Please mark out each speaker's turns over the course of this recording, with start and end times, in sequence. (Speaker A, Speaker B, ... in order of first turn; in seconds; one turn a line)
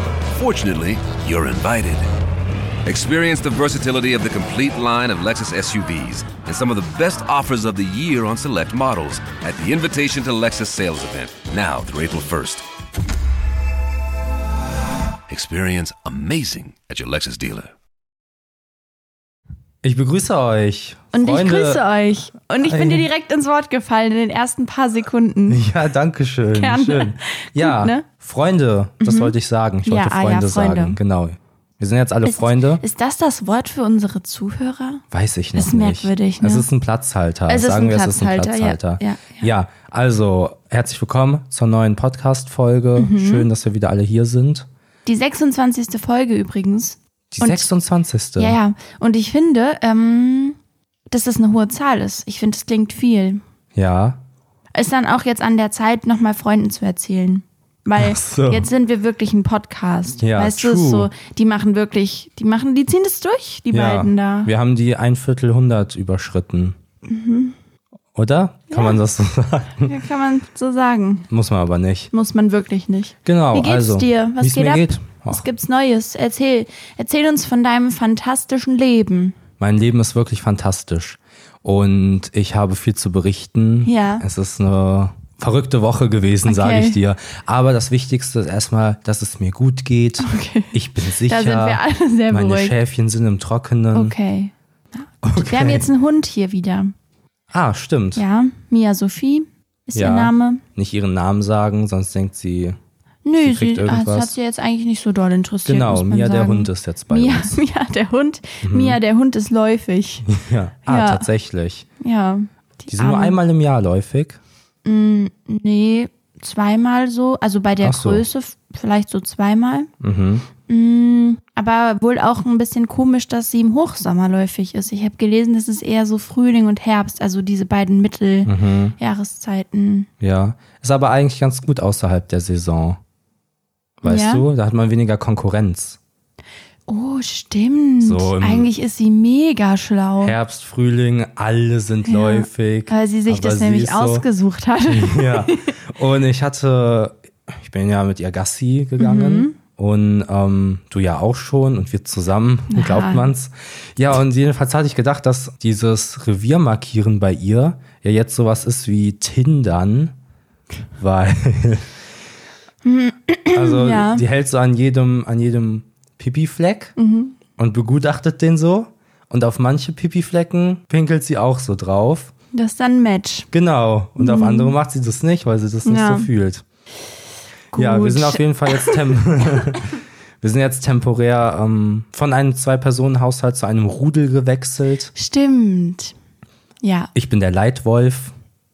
Speaker A: 0.3-2.1
Speaker A: 2.9-12.6
Speaker A: 15.3-17.7
Speaker B: 19.8-21.8
Speaker C: 21.1-25.6
Speaker B: 22.6-23.1
Speaker B: 25.5-32.8
Speaker C: 26.5-28.1
Speaker C: 29.0-29.4
Speaker C: 29.9-31.0
Speaker C: 32.2-35.0
Speaker B: 35.1-44.7
Speaker C: 35.5-36.7
Speaker C: 37.5-39.5
Speaker C: 43.0-43.5
Speaker C: 45.1-47.7
Speaker B: 47.3-48.6
Speaker C: 48.4-50.6
Speaker C: 51.1-53.4
Speaker B: 53.8-54.2
Speaker C: 54.8-64.5
Speaker B: 58.0-58.7
Speaker B: 60.2-61.1
Speaker B: 63.7-66.8
Speaker C: 67.1-67.6
Speaker B: 68.2-69.9
Speaker C: 68.7-69.0
Speaker C: 69.8-71.3
Speaker B: 71.3-72.1
Speaker C: 72.1-79.4
Speaker B: 73.2-75.5
Speaker B: 79.6-94.2
Speaker C: 83.8-84.2
Speaker C: 86.5-87.0
Speaker C: 90.2-90.7
Speaker C: 91.3-92.8
Speaker C: 93.9-96.9
Speaker B: 95.2-95.9
Speaker B: 97.5-98.2
Speaker C: 98.2-100.6
Speaker B: 100.0-102.8
Speaker C: 103.2-110.3
Speaker B: 103.4-104.3
Speaker B: 105.7-107.6
Speaker B: 108.6-109.0
Speaker B: 110.3-111.9
Speaker C: 110.8-111.3
Speaker C: 112.0-113.4
Speaker B: 112.9-114.4
Speaker C: 114.8-119.9
Speaker B: 117.8-118.2
Speaker B: 120.0-120.5
Speaker C: 120.7-130.1
Speaker B: 128.4-129.0
Speaker B: 130.2-133.0
Speaker B: 134.0-136.0
Speaker C: 134.0-134.5
Speaker C: 136.9-140.3
Speaker B: 138.0-138.7
Speaker B: 140.2-144.3
Speaker C: 142.1-145.7
Speaker B: 144.9-160.1
Speaker C: 149.0-149.6
Speaker C: 152.7-153.3
Speaker B: 161.0-161.9
Speaker C: 162.8-164.2
Speaker B: 163.5-166.9
Speaker C: 167.0-167.4
Speaker B: 167.6-172.3
Speaker C: 172.5-173.5
Speaker B: 173.5-176.6
Speaker C: 174.2-174.8
Speaker C: 175.8-176.3
Speaker C: 177.7-179.1
Speaker B: 177.8-185.1
Speaker C: 185.2-186.1
Speaker C: 186.8-187.1
Speaker B: 187.2-188.3